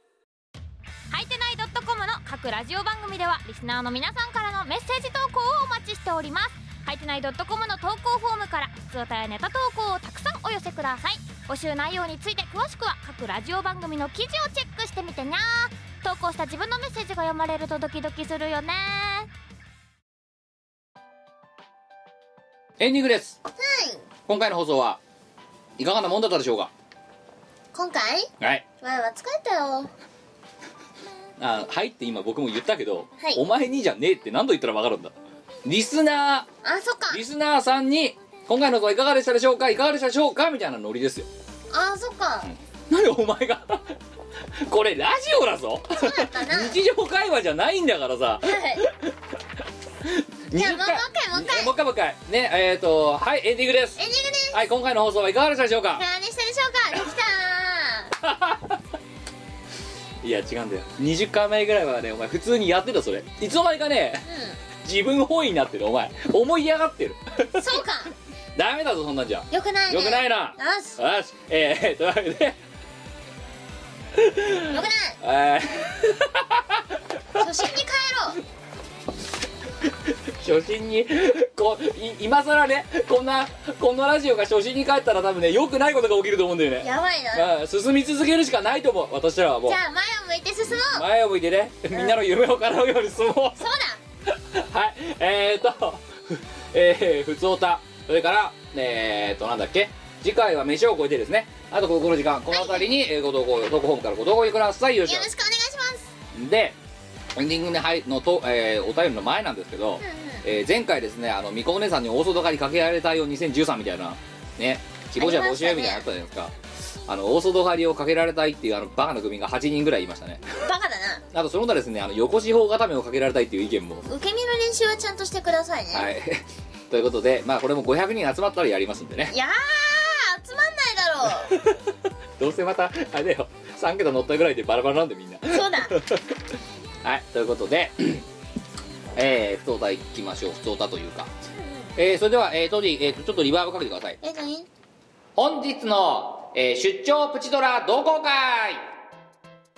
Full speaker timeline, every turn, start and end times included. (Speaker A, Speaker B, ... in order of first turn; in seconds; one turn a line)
Speaker A: 1.1-19.3
Speaker B: 22.8-23.4
Speaker C: 23.6-24.1
Speaker B: 24.3-25.0
Speaker B: 25.8-26.7
Speaker C: 27.7-28.3
Speaker C: 28.8-29.9
Speaker B: 31.4-35.1
Speaker B: 35.6-36.5
Speaker C: 36.6-37.2
Speaker B: 37.1-41.3
Speaker C: 41.7-42.5
Speaker B: 42.5-44.0
Speaker B: 44.7-49.1
Speaker C: 45.9-46.8
Speaker C: 48.4-48.9
Speaker B: 50.0-54.0
Speaker C: 50.6-51.7
Speaker C: 54.0-54.6
Speaker B: 54.5-56.0
Speaker C: 56.0-58.1
Speaker B: 58.2-58.8
Speaker B: 60.2-64.2
Speaker C: 64.3-64.6
Speaker B: 64.8-67.7
Speaker C: 67.6-68.1
Speaker B: 68.6-72.6
Speaker C: 69.5-71.0
Speaker B: 74.2-76.8
Speaker C: 74.7-75.2
Speaker C: 77.4-78.4
Speaker B: 80.4-89.8
Speaker C: 86.8-87.5
Speaker C: 89.7-91.0
Speaker B: 90.7-93.6
Speaker C: 91.9-92.2
Speaker C: 93.6-94.0
Speaker B: 94.5-105.3
Speaker C: 102.5-102.9
Speaker C: 105.1-106.1
Speaker B: 106.3-106.8
Speaker B: 107.4-116.5
Speaker C: 110.0-110.4
Speaker C: 115.2-116.0
Speaker B: 117.1-120.4
Speaker C: 120.6-121.2
Speaker B: 121.3-124.1
Speaker C: 124.1-126.1
Speaker B: 125.9-129.3
Speaker C: 129.3-131.5
Speaker B: 131.5-131.8
Speaker B: 132.4-136.3
Speaker C: 135.5-135.9
Speaker B: 137.0-138.2
Speaker B: 139.2-141.3
Speaker B: 142.0-144.2
Speaker C: 144.2-144.7
Speaker B: 145.4-148.8